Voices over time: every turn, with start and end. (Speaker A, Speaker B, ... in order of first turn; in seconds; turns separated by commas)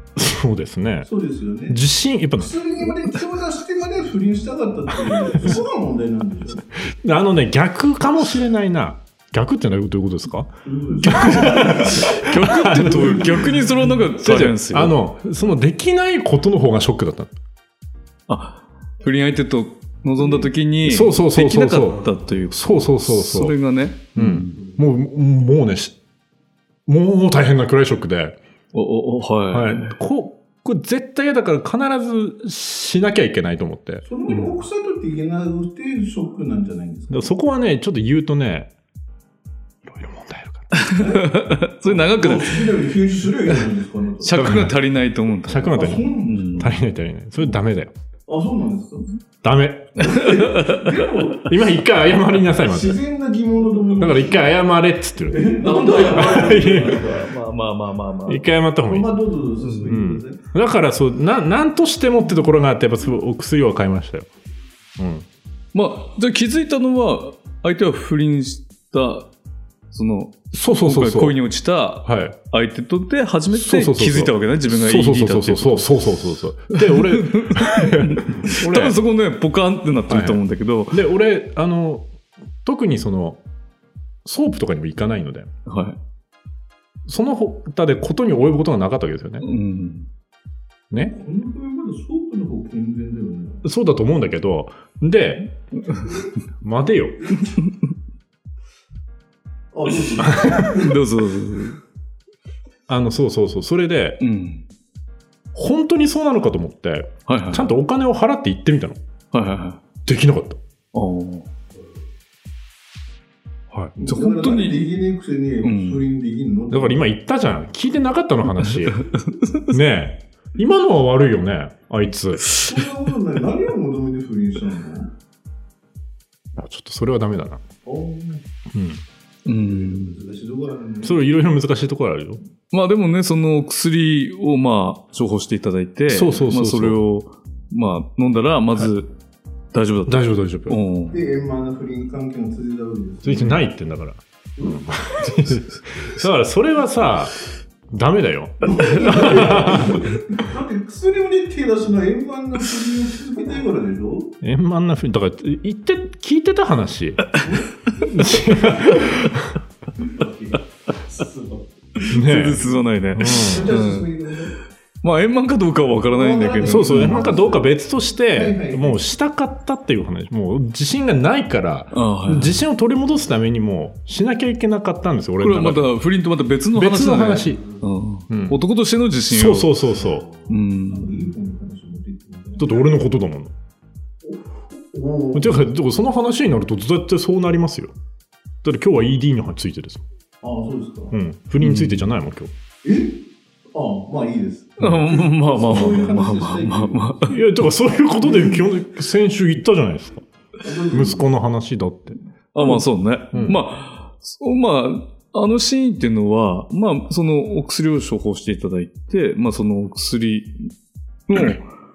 Speaker A: 0.1-1.1, Speaker B: 1.1-1.8, Speaker A: 1.7-2.9, Speaker B: 2.4-6.7, Speaker A: 6.8-10.5, Speaker B: 10.6-12.1, Speaker C: 11.0-15.0, Speaker A: 11.1-17.3, Speaker B: 12.7-13.6, Speaker C: 18.3-24.6, Speaker A: 20.8-23.6, Speaker A: 24.1-26.0, Speaker A: 26.9-28.4, Speaker C: 28.7-30.0, Speaker A: 29.5-34.0, Speaker B: 34.0-37.3, Speaker A: 37.1-38.7, Speaker A: 39.8-40.9, Speaker C: 40.7-42.9, Speaker B: 40.9-44.4, Speaker C: 44.2-46.7, Speaker A: 44.4-44.8, Speaker A: 45.4-47.9, Speaker B: 45.7-46.8, Speaker B: 48.3-49.0, Speaker A: 49.4-50.1, Speaker C: 50.0-51.1, Speaker B: 50.0-51.6, Speaker A: 51.3-53.0, Speaker B: 52.6-54.5, Speaker A: 54.0-57.2, Speaker B: 55.3-57.2, Speaker C: 55.7-58.4, Speaker A: 58.3-59.1, Speaker B: 58.9-60.4, Speaker C: 59.6-60.0, Speaker A: 59.8-64.3, Speaker A: 65.0-65.2, Speaker C: 65.7-69.3, Speaker C: 69.9-76.0, Speaker A: 70.5-71.4, Speaker A: 72.0-72.4, Speaker A: 73.5-79.0, Speaker C: 76.8-81.0, Speaker A: 80.1-82.1, Speaker A: 82.6-83.4, Speaker A: 84.2-85.5, Speaker C: 85.7-86.0, Speaker A: 87.0-89.4, Speaker C: 89.4-90.1, Speaker B: 91.1-93.6, Speaker A: 93.6-95.5, Speaker C: 95.9-96.2, Speaker A: 96.6-97.3, Speaker C: 97.5-97.7, Speaker B: 99.7-101.0, Speaker A: 100.3-100.7, Speaker C: 100.4-101.8, Speaker A: 102.9-104.2, Speaker C: 104.2-104.6, Speaker A: 105.5-109.0, Speaker C: 107.3-107.7, Speaker C: 109.3-109.8, Speaker A: 110.0-110.6, Speaker C: 110.9-111.5, Speaker B: 114.0-117.0, Speaker C: 114.0-114.9, Speaker C: 115.6-116.0, Speaker A: 116.7-119.0, Speaker C: 118.9-119.6, Speaker A: 119.7-122.6, Speaker B: 122.5-125.1, Speaker A: 126.5-127.6, Speaker B: 127.8-128.4, Speaker A: 128.7-129.0, Speaker C: 129.4-130.2, Speaker B: 129.5-131.2, Speaker A: 131.0-132.4, Speaker C: 132.7-139.1, Speaker A: 136.1-137.0, Speaker C: 139.7-141.2, Speaker A: 140.1-140.8, Speaker B: 141.1-143.6, Speaker A: 143.2-147.3, Speaker B: 144.6-145.4, Speaker A: 147.9-150.2, Speaker B: 148.6-154.3, Speaker A: 154.4-157.4, Speaker B: 157.4-159.0, Speaker A: 158.0-159.6, Speaker B: 160.1-160.6, Speaker C: 161.9-164.3, Speaker A: 162.1-162.6, Speaker A: 163.2-163.7, Speaker B: 163.2-164.6, Speaker C: 165.0-167.3, Speaker B: 166.1-167.7, Speaker A: 166.6-175.9, Speaker B: 168.3-169.0, Speaker C: 171.9-172.6, Speaker C: 175.4-179.8, Speaker A: 176.7-177.6, Speaker A: 178.3-178.6, Speaker A: 179.3-180.3, Speaker C: 180.5-181.2, Speaker B: 180.8-182.8, Speaker A: 182.6-183.5, Speaker B: 184.2-185.6, Speaker A: 185.3-187.9, Speaker A: 188.6-190.0, Speaker B: 190.4-191.2, Speaker A: 191.1-192.5, Speaker C: 191.6-192.1, Speaker B: 192.8-193.2, Speaker B: 193.7-197.2, Speaker C: 194.8-197.4, Speaker A: 197.3-200.2, Speaker B: 198.2-198.7, Speaker B: 200.6-201.3, Speaker A: 200.9-202.2, Speaker C: 202.5-210.7, Speaker A: 203.3-203.6, Speaker C: 211.3-211.6